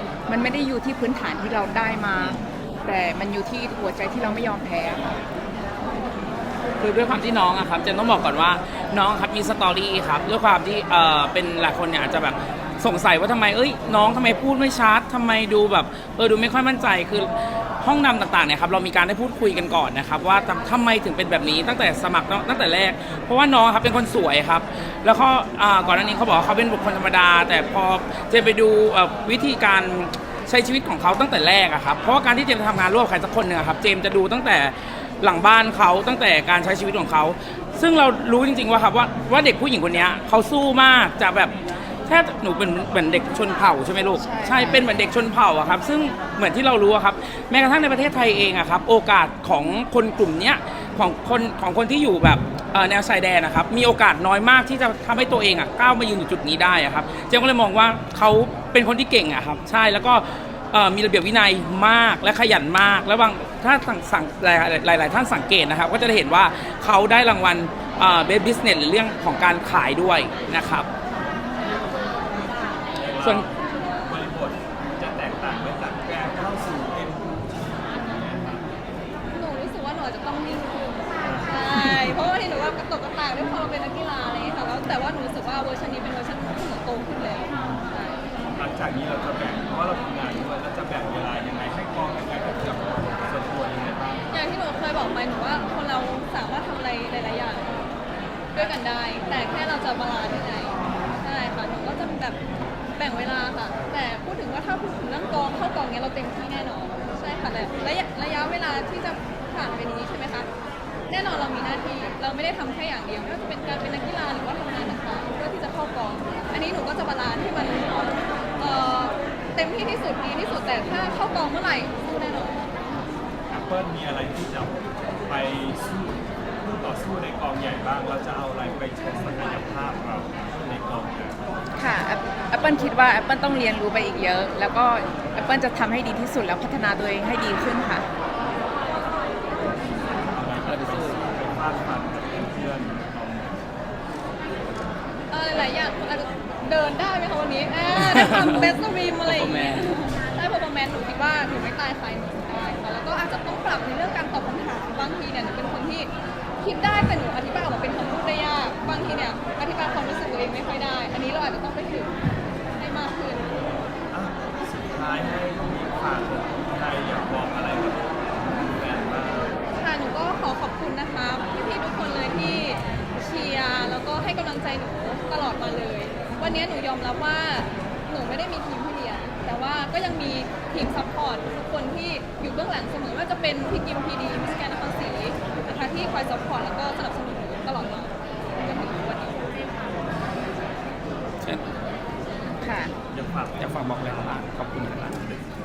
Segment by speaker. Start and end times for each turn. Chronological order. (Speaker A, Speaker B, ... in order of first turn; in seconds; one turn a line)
Speaker A: 0.3-5.2
Speaker B: 6.8-41.5
Speaker B: 42.1-70.9
Speaker A: 44.2-44.9
Speaker C: 72.9-78.6
Speaker D: 79.3-88.2
Speaker C: 81.2-81.9
Speaker C: 87.5-87.9
Speaker C: 88.5-94.4
Speaker D: 94.3-97.8
Speaker D: 98.5-102.4
Speaker D: 103.0-110.5
Speaker D: 111.1-122.6
Speaker C: 123.5-131.4
Speaker A: 131.8-138.1
Speaker C: 139.6-143.5
Speaker B: 140.6-141.2
Speaker D: 145.3-162.1
Speaker B: 148.0-148.7
Speaker B: 149.2-150.0
Speaker D: 162.8-163.6
Speaker C: 164.1-169.6
Speaker D: 169.8-189.4
Speaker A: 192.6-192.9
Speaker C: 193.1-195.4
Speaker B: 193.6-195.1